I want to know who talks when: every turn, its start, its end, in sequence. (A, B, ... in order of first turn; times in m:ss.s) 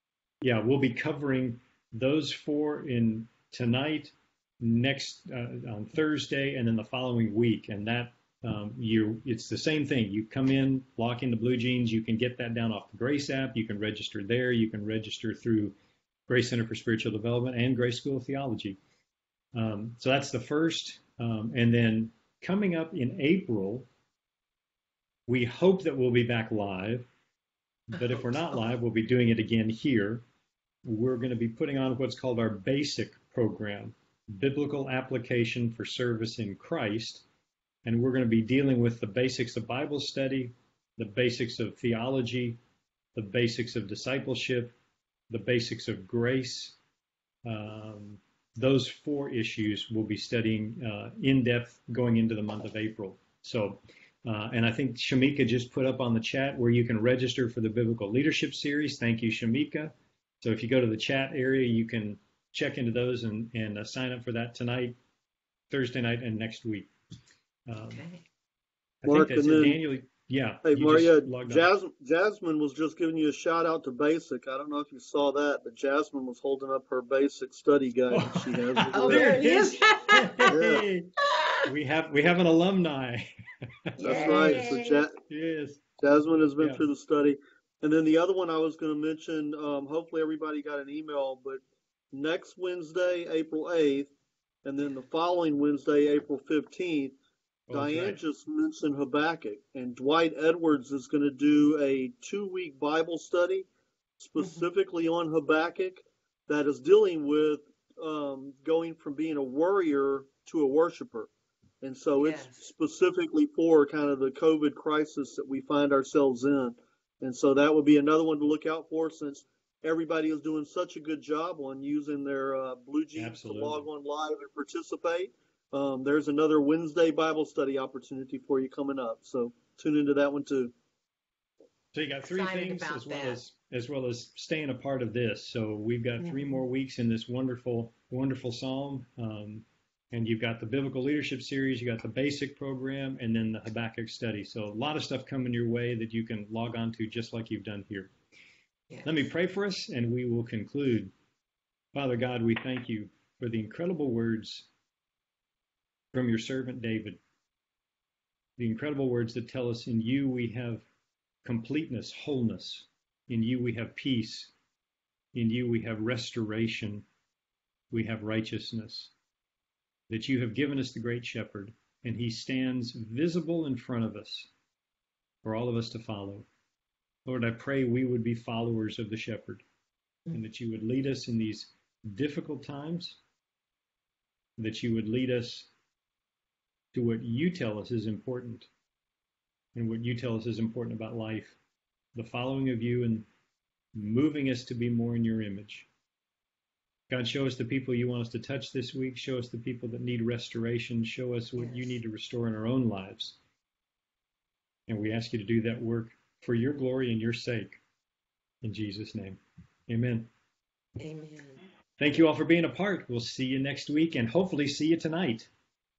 0:00.4-0:15.7 A
0:16.3-0:18.8 A
0:19.5-0:23.9 A
0:25.3-0:27.1 A
0:27.9-0:30.2 A
0:30.8-0:37.2 A
0:37.8-0:42.6 A
0:43.1-0:44.7 A
0:45.3-0:46.8 A
0:47.4-1:05.0 A
1:05.7-1:06.9 A
1:07.7-1:08.0 A
1:07.9-1:08.2 B
1:09.0-1:11.7 A
1:09.0-1:09.8 C
1:10.6-1:19.5 C
1:18.1-1:21.1 A
1:18.9-1:20.5 B
1:20.5-1:20.8 C
1:21.6-1:23.3 A
1:24.0-1:24.7 A
1:24.0-1:25.0 B
1:24.0-1:25.1 C
1:25.3-1:25.8 A
1:26.0-1:31.6 C
1:26.6-1:26.9 A
1:32.1-1:34.1 C
1:34.6-1:37.2 C
1:37.7-1:38.2 A
1:37.7-1:43.6 C
1:44.2-1:51.3 C
1:44.4-1:44.7 B
1:51.8-2:10.7 C
1:52.2-1:52.6 B
2:03.2-2:03.9 A
2:11.9-2:28.1 A
2:12.2-2:13.4 B
2:29.0-2:31.1 A
2:31.9-2:34.7 A
2:36.1-2:37.2 A
2:38.6-2:40.8 A
2:41.4-2:44.5 A
2:45.3-2:47.0 A
2:47.9-2:49.1 A
2:50.1-2:54.5 A
2:55.4-2:56.5 A
2:57.2-2:59.6 A
3:00.3-3:03.2 A
3:04.6-3:05.7 A
3:06.9-3:08.7 A
3:09.7-3:11.6 A
3:12.1-3:13.3 A
3:13.9-3:15.9 A
3:17.1-3:23.4 A
3:21.6-3:21.9 B
3:24.9-3:27.8 A
3:28.6-3:30.3 A
3:31.0-3:31.6 B
3:32.0-3:35.5 A